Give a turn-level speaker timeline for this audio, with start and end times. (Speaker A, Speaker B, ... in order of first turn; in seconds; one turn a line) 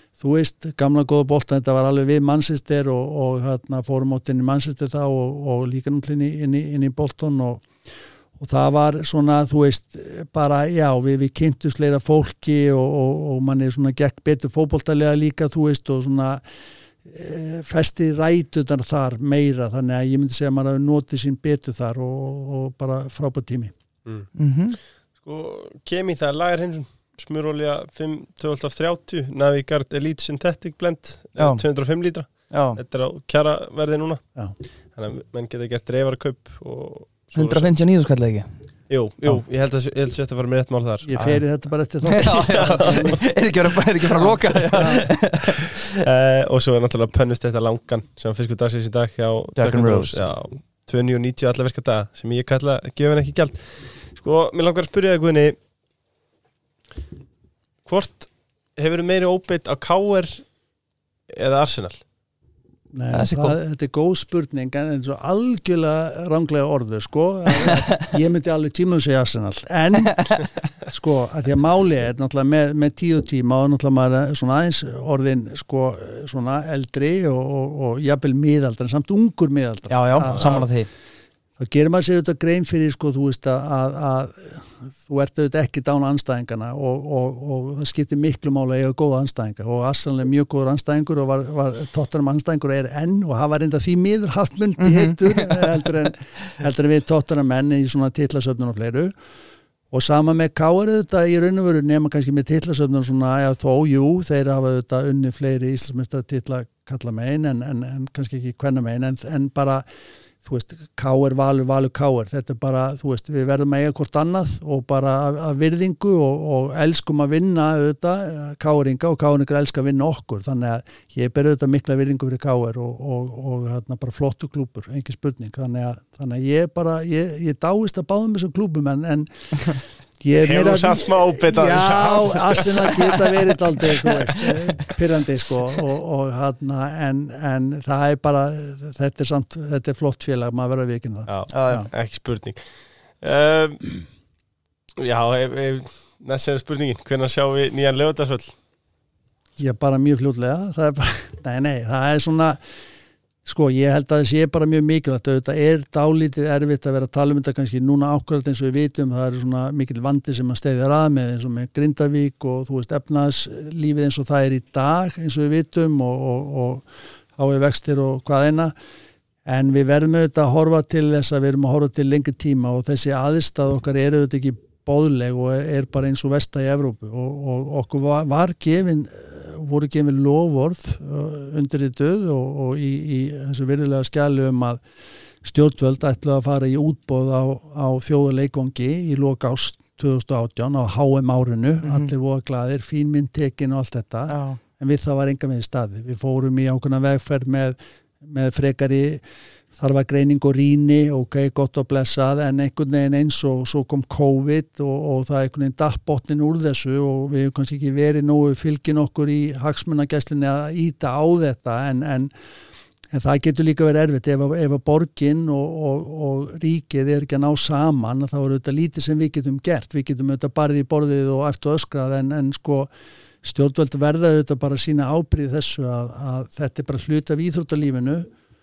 Speaker A: 0.2-7.7
Speaker A: 8.4-16.4
Speaker A: 17.0-23.7
Speaker B: 24.4-24.8
Speaker C: 25.2-34.4
Speaker B: 32.5-32.8
Speaker C: 35.0-37.8
Speaker B: 37.4-38.5
Speaker C: 38.9-41.2
Speaker A: 41.0-43.2
Speaker B: 42.1-45.9
Speaker C: 42.2-43.2
Speaker A: 44.2-45.1
Speaker C: 45.5-55.6
Speaker B: 49.6-50.2
Speaker C: 57.9-60.4
Speaker C: 61.3-62.0
Speaker A: 62.9-80.7
Speaker B: 63.1-63.6
Speaker B: 79.9-80.9
Speaker A: 81.6-99.2
Speaker B: 94.8-95.1
Speaker A: 99.9-109.8
Speaker A: 110.4-141.9
Speaker C: 130.4-134.5
Speaker C: 141.3-142.6
Speaker B: 141.5-141.9
Speaker C: 143.2-144.0
Speaker C: 145.0-148.6
Speaker A: 149.6-152.6
Speaker A: 153.4-168.7
Speaker A: 169.4-184.8
Speaker A: 185.4-199.2
Speaker B: 191.8-192.1
Speaker B: 194.3-194.6
Speaker A: 199.7-212.3
Speaker A: 213.1-222.9
Speaker A: 223.4-228.3